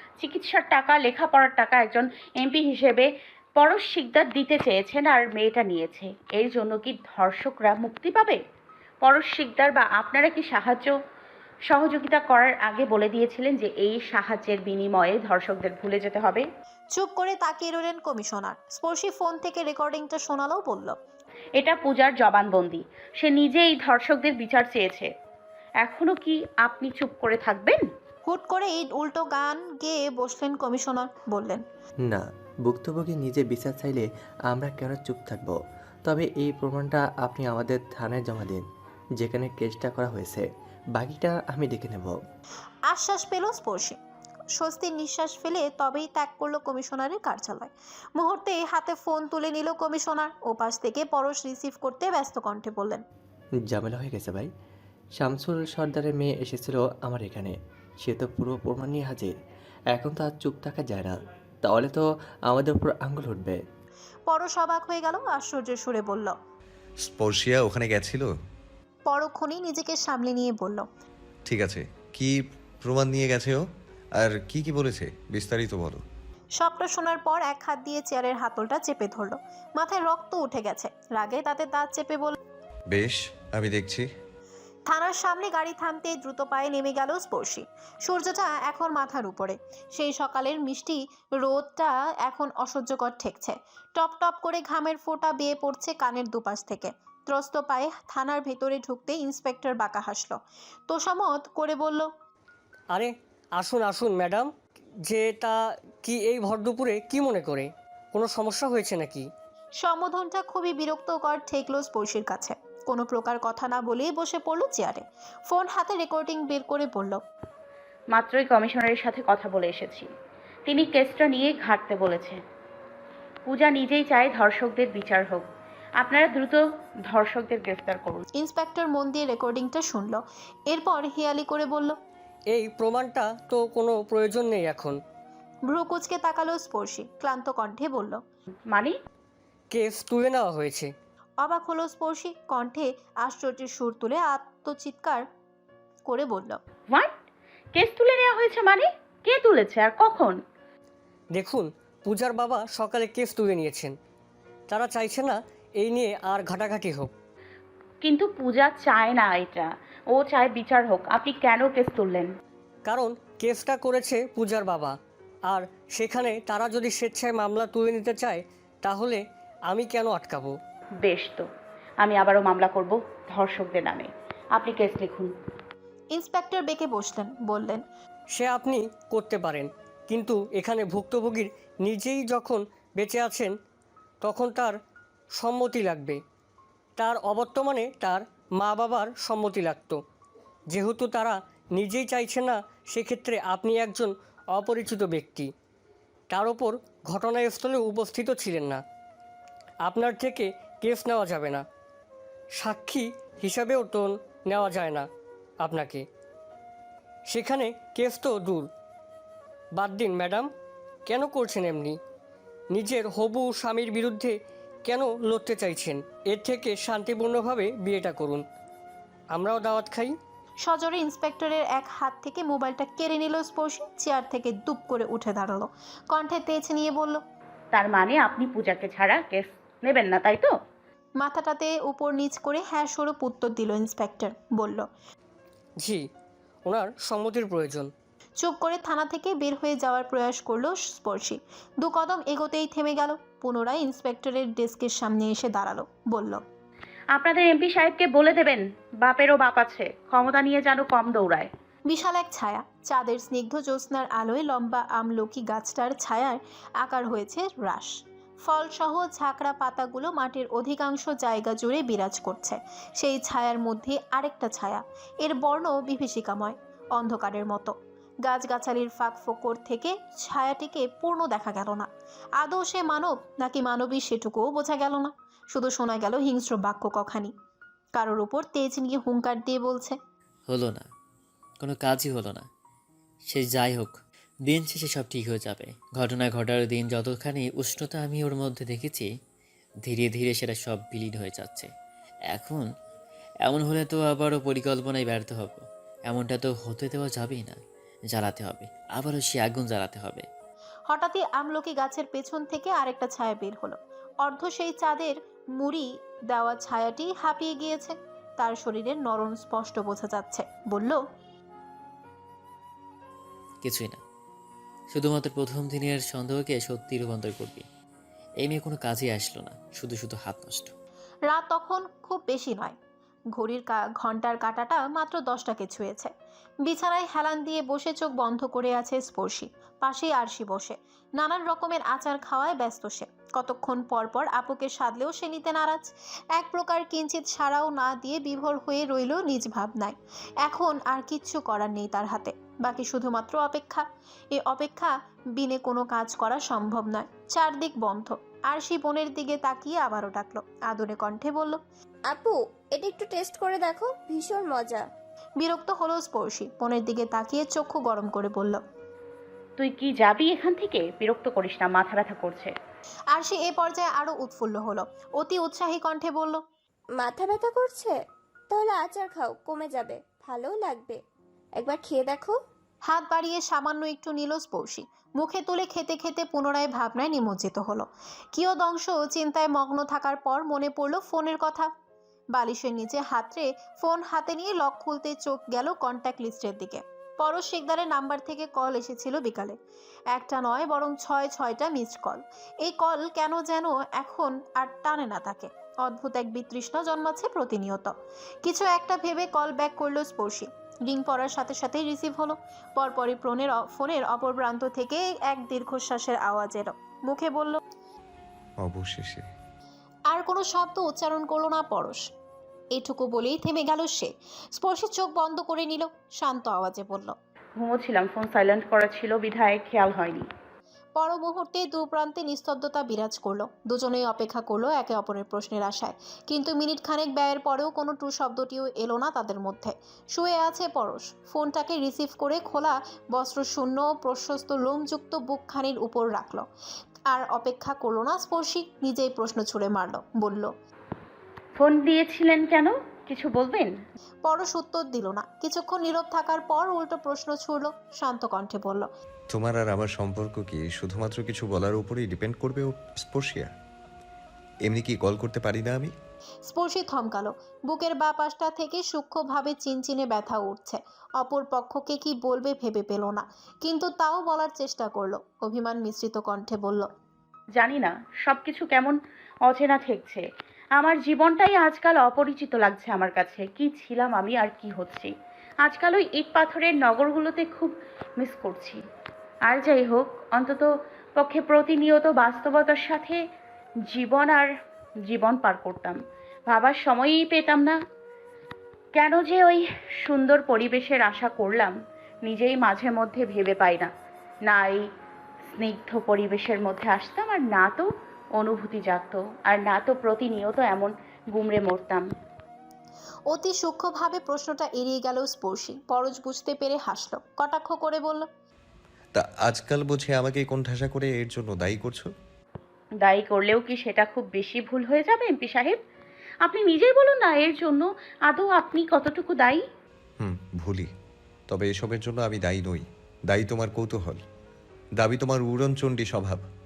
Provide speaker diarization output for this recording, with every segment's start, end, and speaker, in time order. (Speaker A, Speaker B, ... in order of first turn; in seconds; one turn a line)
Speaker A: 0.2-8.4
Speaker A: 9.0-10.9
Speaker A: 11.7-16.4
Speaker B: 16.9-21.0
Speaker A: 21.6-25.1
Speaker A: 25.8-27.8
Speaker B: 28.3-31.6
Speaker C: 32.0-38.6
Speaker C: 39.2-42.2
Speaker B: 42.9-44.0
Speaker B: 44.6-53.0
Speaker C: 53.7-54.5
Speaker C: 55.2-59.3
Speaker C: 59.9-63.6
Speaker B: 64.3-66.3
Speaker D: 67.0-68.3
Speaker B: 69.1-70.8
Speaker D: 71.5-72.3
Speaker D: 72.8-73.6
Speaker D: 74.2-76.0
Speaker B: 76.6-82.4
Speaker D: 82.9-84.1
Speaker B: 84.9-100.4
Speaker B: 100.9-102.1
Speaker E: 102.9-104.5
Speaker E: 105.1-109.3
Speaker B: 109.8-117.2
Speaker A: 118.1-120.1
Speaker A: 120.7-122.4
Speaker A: 123.5-125.5
Speaker A: 126.0-128.2
Speaker B: 128.4-131.9
Speaker E: 132.5-135.0
Speaker B: 135.7-138.2
Speaker A: 138.7-138.9
Speaker E: 139.7-140.9
Speaker B: 141.4-145.2
Speaker B: 146.1-146.6
Speaker A: 147.7-150.4
Speaker E: 151.3-153.9
Speaker E: 154.7-157.1
Speaker A: 158.0-162.3
Speaker E: 162.8-164.9
Speaker E: 165.5-170.5
Speaker A: 171.0-171.5
Speaker A: 172.0-175.3
Speaker B: 176.1-177.8
Speaker E: 178.3-183.5
Speaker E: 184.2-184.8
Speaker E: 185.4-186.2
Speaker E: 187.0-190.0
Speaker E: 190.7-195.5
Speaker E: 196.3-198.8
Speaker E: 199.8-201.6
Speaker E: 202.6-205.1
Speaker E: 205.6-206.0
Speaker E: 207.3-208.7
Speaker E: 209.8-210.5
Speaker E: 211.1-212.0
Speaker E: 212.7-218.4
Speaker E: 219.3-220.1
Speaker B: 220.6-227.2
Speaker A: 227.7-230.5
Speaker B: 231.2-234.8
Speaker E: 236.7-237.9
Speaker B: 238.4-246.4
Speaker A: 247.1-251.5
Speaker B: 251.9-257.9
Speaker B: 258.5-267.7
Speaker B: 268.2-271.9
Speaker B: 272.4-277.3
Speaker B: 278.0-280.0
Speaker F: 280.5-280.9
Speaker F: 281.6-282.5
Speaker F: 283.3-289.1
Speaker F: 289.9-291.7
Speaker F: 292.3-292.7
Speaker F: 293.4-297.6
Speaker F: 298.1-300.3
Speaker B: 300.9-311.0
Speaker F: 313.6-314.0
Speaker F: 314.9-317.6
Speaker F: 318.4-320.7
Speaker B: 321.3-322.8
Speaker B: 323.4-326.1
Speaker B: 326.7-351.6
Speaker G: 352.1-354.8
Speaker B: 355.4-358.6
Speaker A: 359.6-362.5
Speaker B: 363.1-366.4
Speaker G: 367.0-367.9
Speaker G: 368.5-371.0
Speaker G: 371.6-372.4
Speaker B: 372.9-381.7
Speaker B: 382.3-389.6
Speaker B: 390.1-397.9
Speaker B: 398.4-407.6
Speaker D: 408.6-409.2
Speaker B: 410.1-412.1
Speaker B: 412.8-417.1
Speaker A: 417.6-420.3
Speaker B: 421.0-436.5
Speaker B: 437.1-440.5
Speaker A: 441.6-443.7
Speaker B: 444.2-448.9
Speaker D: 449.3-453.5
Speaker D: 454.7-455.9
Speaker B: 456.5-466.9
Speaker A: 467.6-470.2
Speaker A: 470.8-475.1
Speaker A: 475.6-478.8
Speaker A: 479.5-483.2
Speaker A: 483.9-484.5
Speaker A: 485.1-487.8
Speaker A: 488.9-493.9
Speaker A: 494.5-494.9
Speaker A: 495.5-502.1
Speaker B: 503.3-508.2
Speaker D: 509.1-512.1
Speaker A: 513.0-515.8
Speaker A: 516.4-519.6
Speaker D: 520.2-520.9
Speaker D: 521.5-524.2
Speaker D: 525.0-526.4